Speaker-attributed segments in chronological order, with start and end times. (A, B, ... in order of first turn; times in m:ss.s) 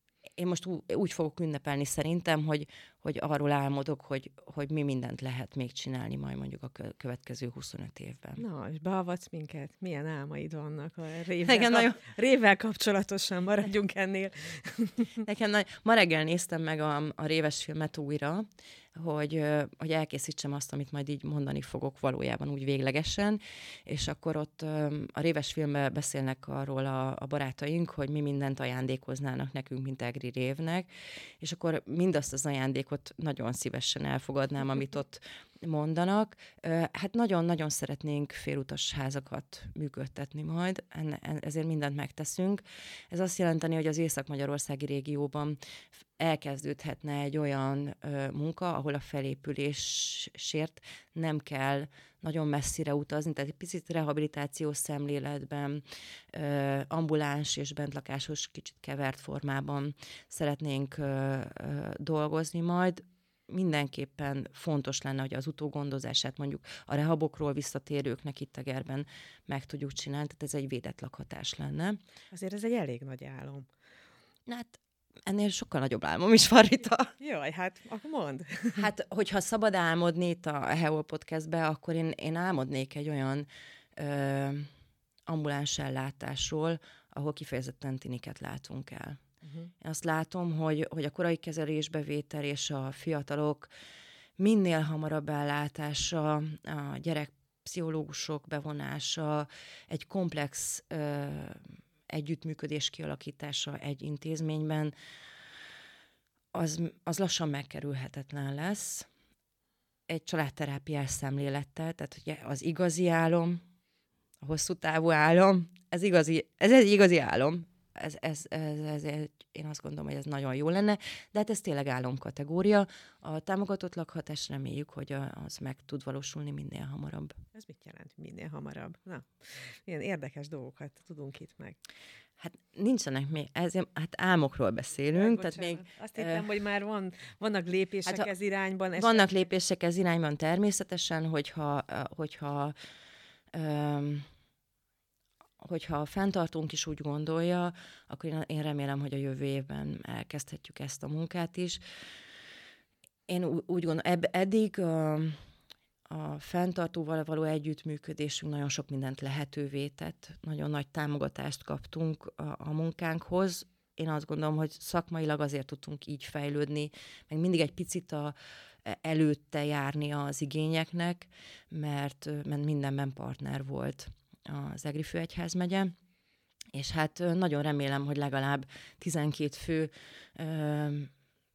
0:00.4-0:08.4 A
0:08.4-0:15.2 B
0:11.4-0:12.0 A
0:15.2-0:30.9 A
0:31.4-1:12.0 A
1:12.3-1:13.7 B
1:14.5-1:17.1 A
1:17.2-1:18.9 B
1:18.8-1:24.7 A
1:25.3-1:29.2 A
1:29.4-1:29.7 B
1:29.8-1:33.7 A
1:34.4-1:44.9 A
1:46.5-1:49.1 A
1:50.1-1:53.6 A
1:54.4-2:07.4 A
2:07.5-2:11.8 B
2:12.4-2:16.4 A
2:15.1-2:19.3 B
2:19.0-2:22.8 A
2:23.5-2:24.3 A
2:25.6-2:31.8 A
2:33.3-2:35.4 A
2:36.1-2:56.0 A
2:56.7-3:01.1 A